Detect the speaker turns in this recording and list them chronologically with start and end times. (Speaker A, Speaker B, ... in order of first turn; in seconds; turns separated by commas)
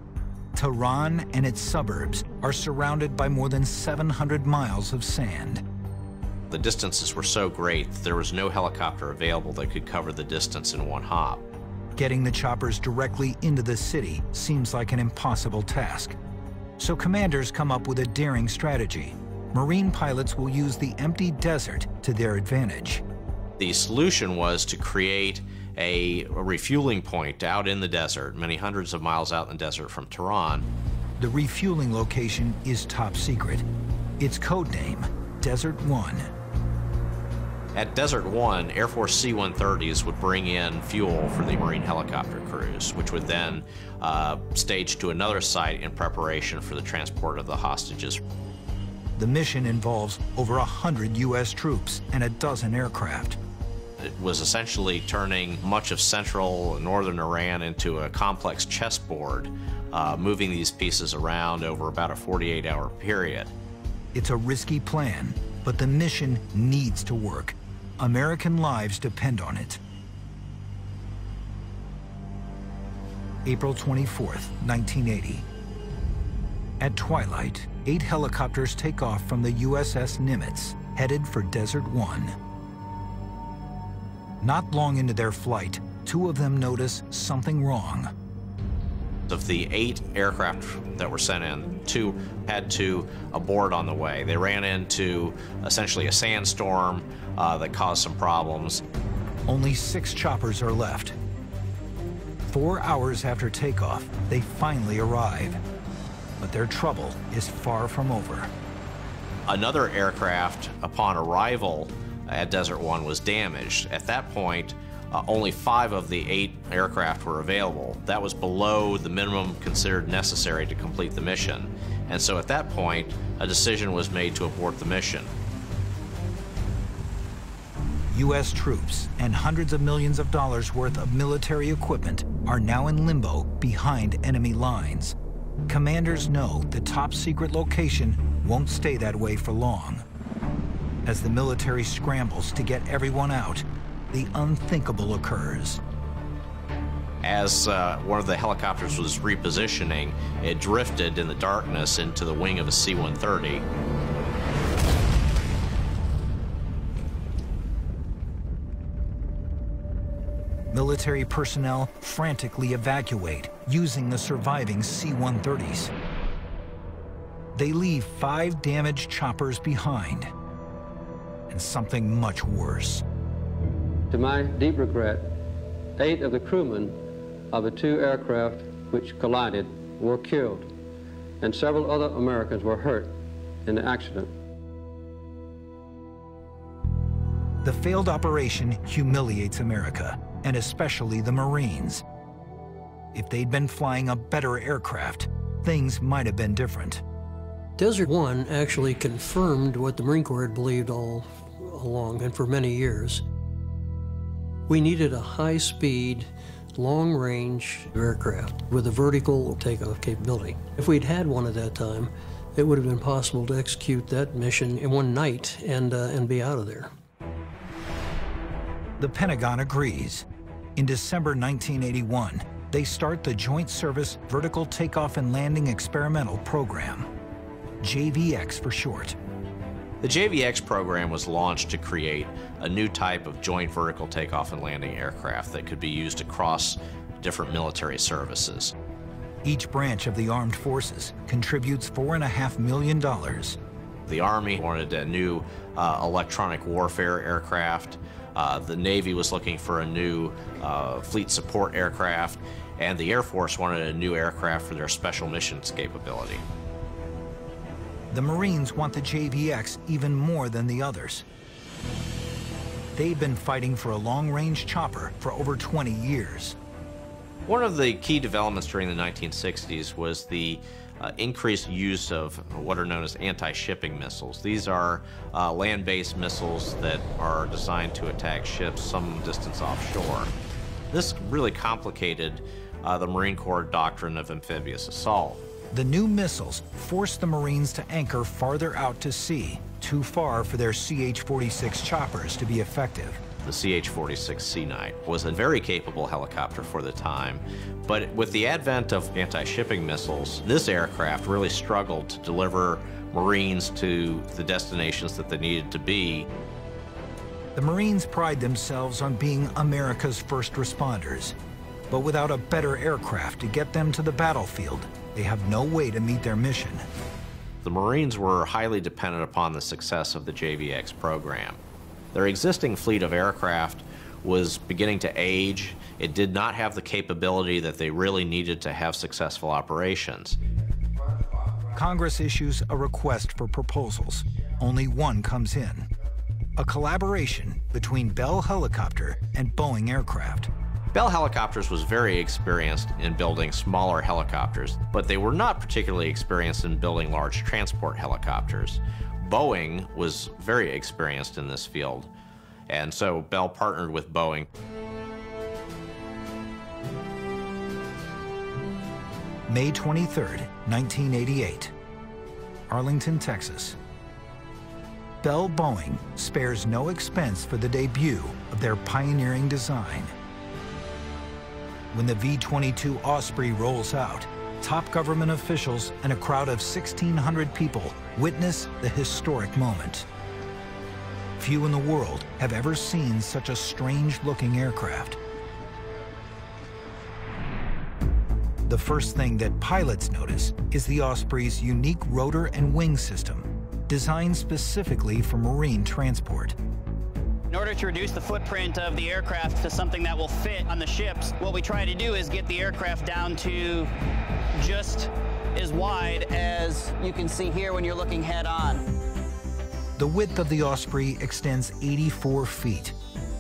Speaker A: 0.6-5.6, Speaker B: 6.5-11.4, Speaker A: 12.0-16.2, Speaker A: 16.8-23.0, Speaker B: 23.6-30.7, Speaker A: 31.2-33.7, Speaker A: 34.2-36.3, Speaker B: 37.8-48.2, Speaker A: 49.2-53.4, Speaker B: 54.0-63.5, Speaker A: 64.1-69.8, Speaker A: 73.5-75.5, Speaker A: 76.8-82.4, Speaker A: 84.4-88.1, Speaker B: 89.3-98.8, Speaker A: 99.5-101.2, Speaker A: 102.5-105.6, Speaker A: 106.4-108.5, Speaker B: 109.5-125.3, Speaker A: 128.1-135.2, Speaker A: 135.7-140.1, Speaker A: 141.1-145.8, Speaker B: 147.2-153.7, Speaker A: 160.7-165.9, Speaker A: 167.6-170.3, Speaker A: 171.5-173.0, Speaker C: 174.1-175.3, Speaker C: 176.0-177.0, Speaker C: 177.5-180.7, Speaker C: 181.4-183.1, Speaker C: 183.7-184.3, Speaker A: 187.6-192.0, Speaker A: 193.1-197.0, Speaker D: 197.8-203.2, Speaker D: 204.7-216.9, Speaker A: 219.0-227.1, Speaker A: 227.8-229.2, Speaker B: 230.0-238.7, Speaker A: 239.4-243.6, Speaker B: 244.1-256.4, Speaker A: 258.1-261.2, Speaker A: 262.9-266.6, Speaker B: 267.5-280.3, Speaker B: 280.9-285.4, Speaker A: 285.7-293.2, Speaker B: 293.4-306.3, Speaker A: 307.6-311.4, Speaker A: 311.9-316.9, Speaker B: 317.6-321.6, Speaker B: 322.1-330.4, Speaker A: 331.7-335.9, Speaker A: 336.6-340.5, Speaker B: 340.9-352.1, Speaker B: 352.7-354.5, Speaker A: 359.5-361.7, Speaker A: 362.7-363.8, Speaker A: 365.2-370.1, Speaker A: 371.9-380.1, Speaker A: 381.4-385.2, Speaker A: 388.7-396.6, Speaker E: 397.5-403.9, Speaker E: 404.6-408.9, Speaker A: 410.0-412.9